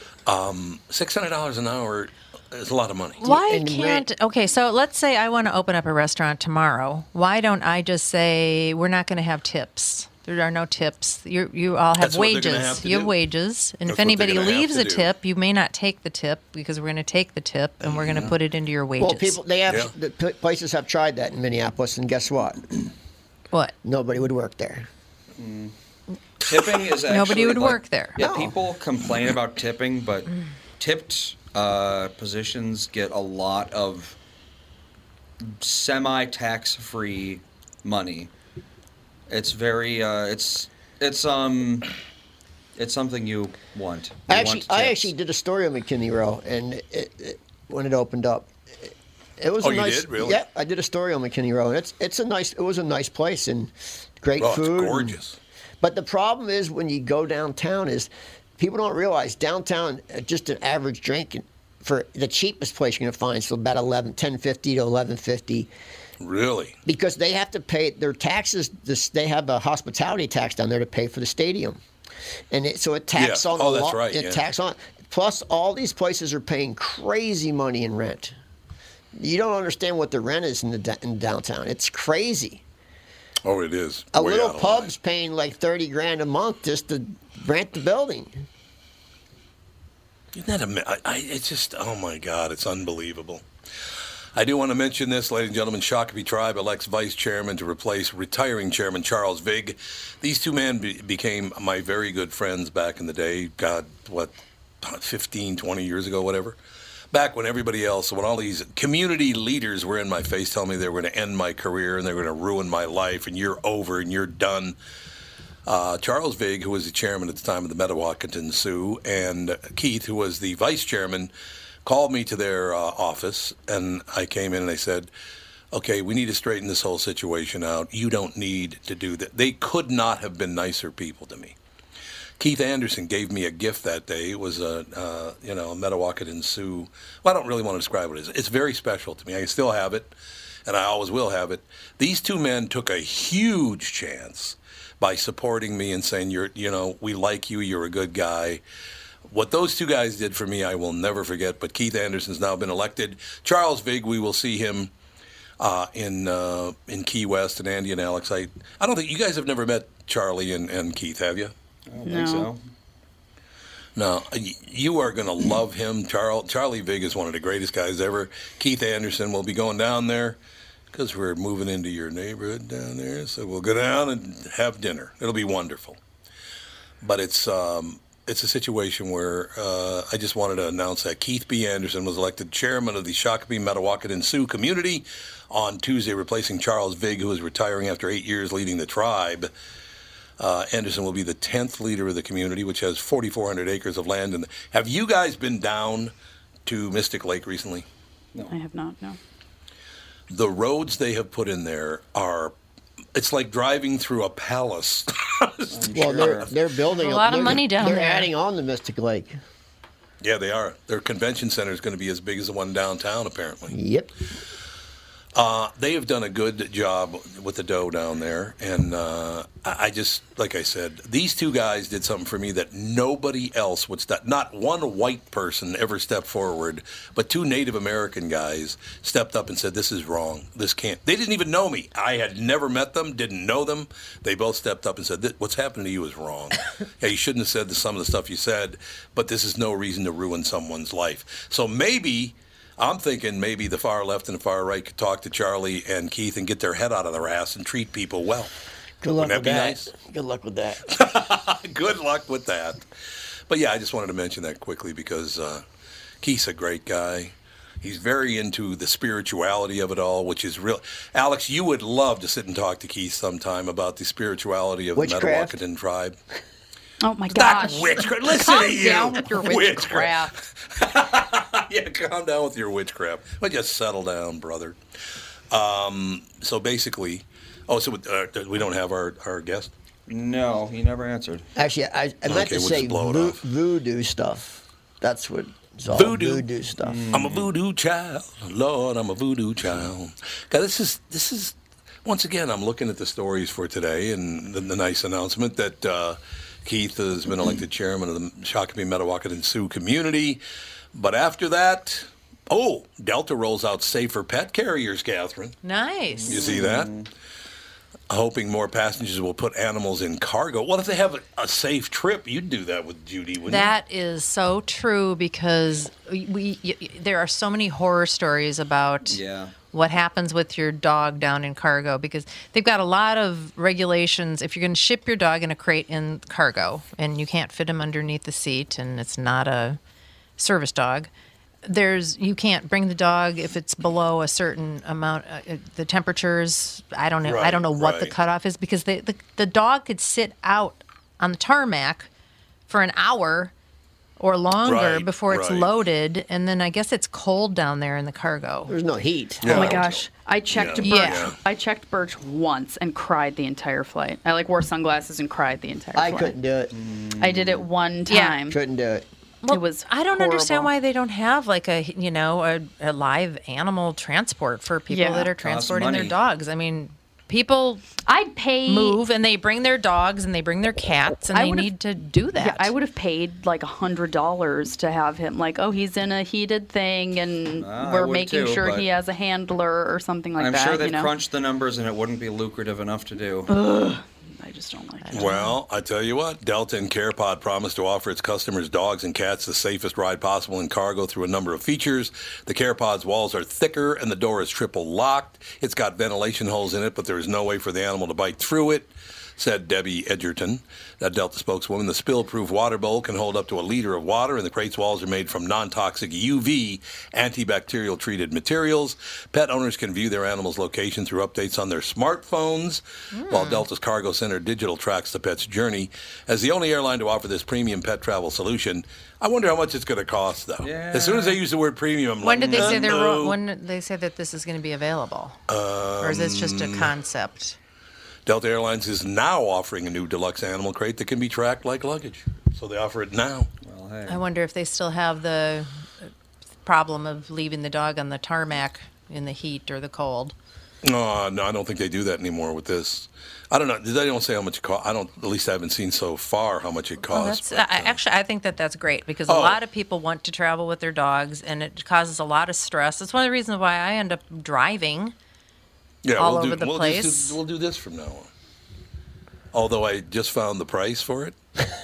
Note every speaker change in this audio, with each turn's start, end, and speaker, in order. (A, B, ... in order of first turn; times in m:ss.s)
0:00.3-0:03.2 A
0:03.2-0:04.1 B
0:03.2-0:19.4 C
0:12.0-0:13.1 A
0:13.9-0:15.1 A
0:19.0-0:22.9 B
0:23.8-0:24.9 B
0:25.4-0:25.7 D
0:26.4-0:34.2 D
0:27.0-0:28.3 C
0:28.2-0:28.6 B
0:35.6-0:38.3 D
0:39.3-0:41.9 D
0:42.8-0:45.1 D
0:44.3-0:55.2 B
0:49.6-0:50.4 A
0:54.4-0:55.4 A
0:55.8-1:05.7 B
1:06.2-1:06.8 A
1:06.9-1:11.8 B
1:12.5-1:18.3 B
1:13.2-1:14.4 A
1:19.2-1:22.6 B
1:23.4-1:24.9 A
1:24.1-1:28.5 B
1:30.3-1:33.4 A
1:34.4-1:46.6 A
1:47.1-1:54.8 A
1:55.7-2:01.3 A
2:01.8-2:05.1 A
2:05.7-2:11.6 A
2:12.4-2:20.1 A
2:20.7-2:28.6 A
2:29.3-2:34.9 A
2:35.6-2:41.5 A
2:41.9-2:42.6 D
2:42.0-2:42.5 E
2:44.0-2:50.4 A
2:50.9-2:56.0 A
2:57.0-3:09.5 A
3:10.4-3:16.1 A
3:16.7-3:17.9 A
3:18.5-3:19.2 E
3:20.3-3:22.6 A
3:23.2-3:26.5 A
3:25.7-3:26.5 D
3:25.9-3:29.4 B
3:26.9-3:28.3 C
3:30.2-3:33.8 A
3:33.7-3:34.1 B
3:35.4-4:08.5 A
4:09.0-4:10.9 B
4:09.2-4:09.9 A
4:10.9-4:12.8 A
4:13.5-4:15.6 A
4:16.2-4:26.2 A
4:25.0-4:25.6 B
4:27.0-4:30.4 E
4:27.3-4:34.8 A
4:35.5-4:39.7 A
4:40.1-4:41.5 D
4:41.6-4:47.0 B
4:42.3-4:43.4 A
4:45.9-4:46.5 A
4:46.8-4:47.5 D
4:47.1-5:00.4 A
5:00.9-5:05.6 A
5:05.6-5:06.6 C
5:06.2-5:07.1 D
5:06.3-5:06.9 A
5:08.1-5:13.7 A
5:13.4-5:29.8 C
5:19.1-5:19.6 D
5:30.4-5:31.1 C
5:31.6-5:42.1 C
5:37.2-5:38.1 A
5:42.7-5:43.5 C
5:44.2-5:48.7 C
5:44.6-5:45.7 A
5:48.7-5:49.8 B
5:49.4-5:51.4 A
5:49.5-5:56.4 E
5:50.8-5:51.3 C
5:56.0-5:56.7 B
5:56.7-5:57.7 D
5:57.2-5:58.6 E
5:58.1-5:58.4 C
5:58.5-5:59.1 B
5:59.4-6:07.8 C
5:59.5-6:00.7 E
6:04.9-6:05.3 E
6:05.3-6:06.2 D
6:08.1-6:09.0 E
6:08.7-6:12.7 C
6:11.3-6:11.7 E
6:12.4-6:21.1 E
6:17.6-6:18.9 D
6:20.4-6:23.5 D
6:23.5-6:25.3 E
6:25.1-6:25.6 C
6:25.1-7:03.4 A
6:53.1-6:53.7 C
7:00.6-7:01.4 D
7:02.2-7:05.4 C
7:02.4-7:02.9 D
7:05.5-7:06.9 A
7:06.0-7:07.6 C
7:08.3-7:13.5 A
7:13.6-7:14.2 D
7:14.1-7:15.7 C
7:16.6-7:20.4 C
7:20.8-7:28.0 A
7:27.1-7:35.1 C
7:29.3-7:29.6 A
7:36.0-7:38.3 A
7:36.2-7:37.4 C
7:39.5-7:41.4 A